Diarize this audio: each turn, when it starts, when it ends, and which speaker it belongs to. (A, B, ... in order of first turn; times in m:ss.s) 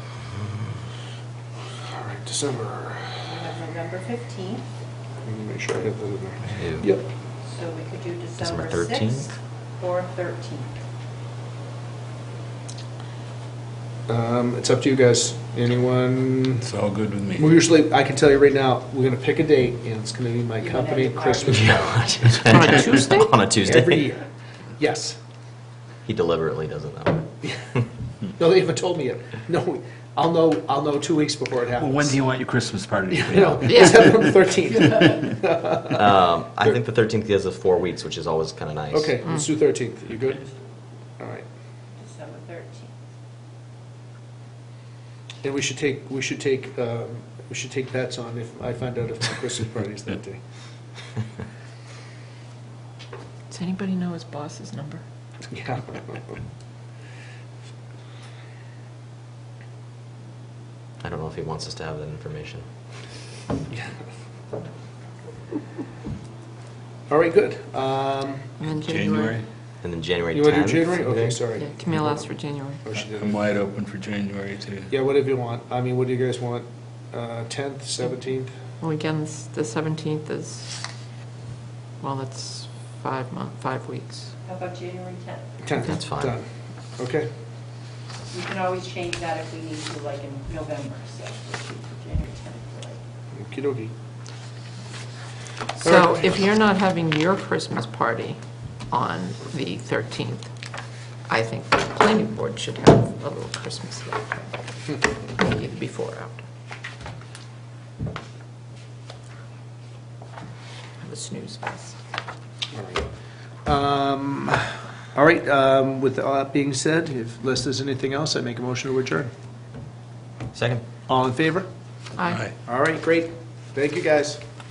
0:01.8-0:03.2 A
0:03.2-0:04.7 B
0:05.2-0:07.1 A
0:06.6-0:06.9 C
0:07.5-0:10.8 B
0:08.4-0:09.3 C
0:14.1-0:16.7 A
0:16.6-0:17.6 D
0:17.4-0:22.3 A
0:20.6-0:22.3 B
0:21.5-0:24.1 C
0:22.5-0:23.4 E
0:23.6-0:25.2 A
0:26.1-0:27.3 C
0:27.4-0:27.7 A
0:28.4-0:32.2 A
0:31.8-0:34.5 D
0:33.1-0:36.8 A
0:33.7-0:34.0 E
0:34.6-0:35.3 B
0:35.9-0:39.1 C
0:38.9-0:40.5 A
0:41.2-0:41.5 A
0:42.0-0:42.9 B
0:45.4-0:50.4 A
0:53.5-0:55.0 E
0:55.5-0:56.4 A
1:01.0-1:02.6 C
1:03.7-1:04.0 A
1:07.1-1:08.5 A
1:08.6-1:09.4 E
1:08.7-1:09.5 D
1:09.8-1:11.4 C
1:10.3-1:13.4 A
1:11.6-1:12.8 E
1:12.9-1:14.9 D
1:14.9-1:18.5 A
1:18.8-1:20.8 E
1:22.0-1:24.3 E
1:24.5-1:25.5 B
1:25.6-1:26.5 A
1:25.8-1:26.4 C
1:27.0-1:27.3 A
1:28.3-1:33.0 B
1:33.3-1:33.9 A
1:35.8-1:40.5 E
1:35.8-1:36.2 A
1:41.3-1:46.4 E
1:51.0-1:52.0 E
1:52.7-1:53.1 A
1:53.6-1:59.3 A
2:00.5-2:00.8 C
2:01.1-2:01.7 A
2:02.2-2:02.5 E
2:02.3-2:02.5 D
2:02.5-2:04.4 A